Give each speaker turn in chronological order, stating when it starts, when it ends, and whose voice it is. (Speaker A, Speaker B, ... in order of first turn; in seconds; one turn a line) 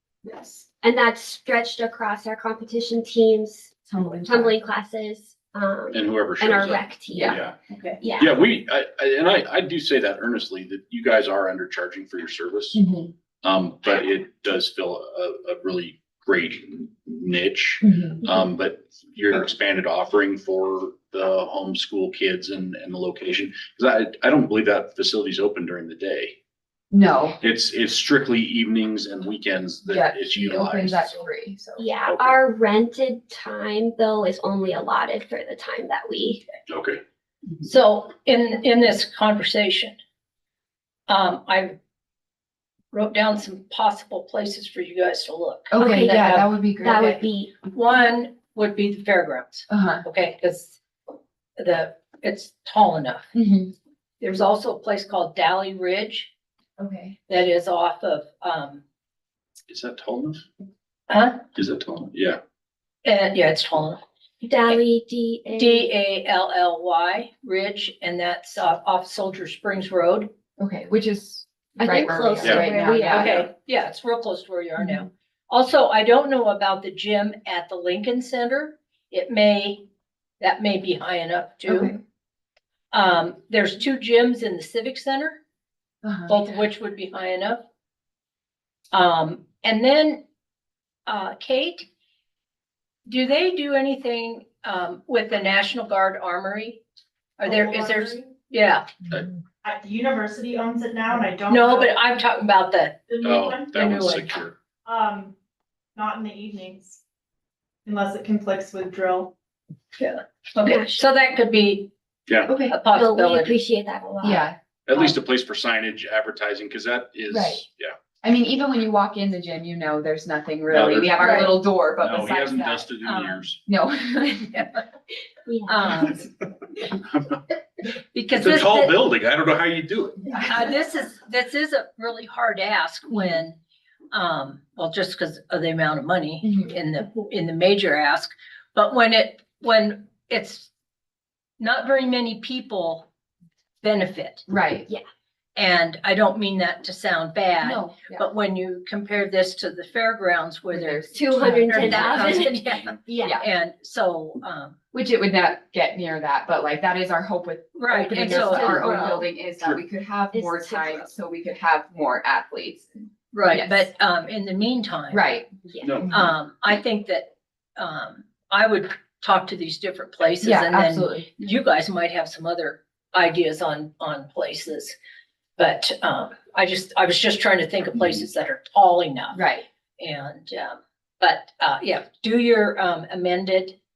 Speaker A: 0.8-3.7
Speaker B: 3.9-4.7
Speaker A: 4.2-7.4
Speaker C: 5.9-7.5
Speaker B: 7.1-7.4
Speaker D: 7.7-8.0
Speaker A: 8.0-8.3
Speaker C: 8.2-12.8
Speaker B: 12.7-13.1
Speaker C: 13.4-26.4
Speaker B: 17.8-18.2
Speaker B: 26.9-27.4
Speaker C: 27.4-31.2
Speaker B: 29.8-31.9
Speaker A: 31.8-36.4
Speaker C: 32.1-32.4
Speaker C: 36.7-37.0
Speaker D: 37.6-40.0
Speaker D: 41.1-41.8
Speaker D: 42.9-50.8
Speaker B: 45.7-47.2
Speaker A: 45.8-46.2
Speaker A: 46.8-47.5
Speaker B: 49.7-50.0
Speaker D: 51.6-53.3
Speaker B: 53.3-53.7
Speaker D: 54.2-56.3
Speaker B: 56.8-57.2
Speaker D: 57.3-58.8
Speaker C: 59.7-60.5
Speaker D: 61.1-61.4
Speaker C: 61.5-62.4
Speaker D: 63.0-64.0
Speaker A: 64.4-65.9
Speaker D: 65.6-70.3
Speaker B: 70.6-73.4
Speaker A: 71.8-73.5
Speaker D: 73.1-79.9
Speaker B: 74.8-75.0
Speaker D: 80.4-82.0
Speaker B: 81.7-82.0
Speaker D: 82.9-85.4
Speaker B: 86.0-86.4
Speaker D: 86.3-87.6
Speaker D: 88.9-90.2
Speaker D: 91.1-91.9
Speaker D: 93.1-96.8
Speaker D: 97.4-98.9
Speaker E: 97.4-98.3
Speaker E: 99.6-102.0
Speaker D: 101.5-103.1
Speaker E: 103.1-103.8
Speaker C: 103.2-104.5
Speaker D: 103.7-104.3
Speaker E: 104.8-105.3
Speaker E: 106.0-107.0
Speaker E: 107.9-109.3
Speaker D: 110.0-111.9
Speaker A: 110.6-111.0
Speaker C: 112.3-112.6
Speaker B: 112.5-112.7
Speaker D: 112.7-113.6
Speaker A: 112.9-114.5
Speaker B: 114.2-114.6
Speaker C: 114.9-118.0
Speaker B: 117.3-117.6
Speaker B: 118.2-122.9
Speaker C: 120.7-121.3
Speaker D: 121.2-121.7
Speaker C: 122.0-123.6
Speaker D: 123.0-123.5
Speaker B: 123.7-124.5
Speaker D: 124.5-124.8
Speaker A: 125.5-126.0
Speaker D: 125.7-126.2
Speaker C: 126.8-127.5
Speaker D: 128.1-129.0
Speaker C: 128.3-130.4
Speaker D: 130.4-133.6
Speaker D: 134.1-140.7
Speaker B: 136.4-136.8
Speaker D: 141.6-143.1
Speaker D: 143.8-144.4
Speaker B: 144.5-144.9
Speaker D: 145.6-154.8
Speaker B: 147.6-148.3
Speaker B: 150.7-152.4
Speaker A: 151.1-153.4
Speaker B: 154.9-163.9
Speaker D: 157.7-159.2
Speaker A: 158.1-159.3
Speaker A: 160.3-161.1
Speaker D: 163.3-165.2
Speaker B: 165.1-165.5
Speaker A: 165.7-166.0
Speaker C: 165.8-166.2
Speaker B: 166.1-166.3
Speaker D: 166.1-174.9
Speaker B: 170.4-171.3
Speaker D: 175.6-179.4
Speaker B: 179.3-179.7
Speaker D: 180.0-183.8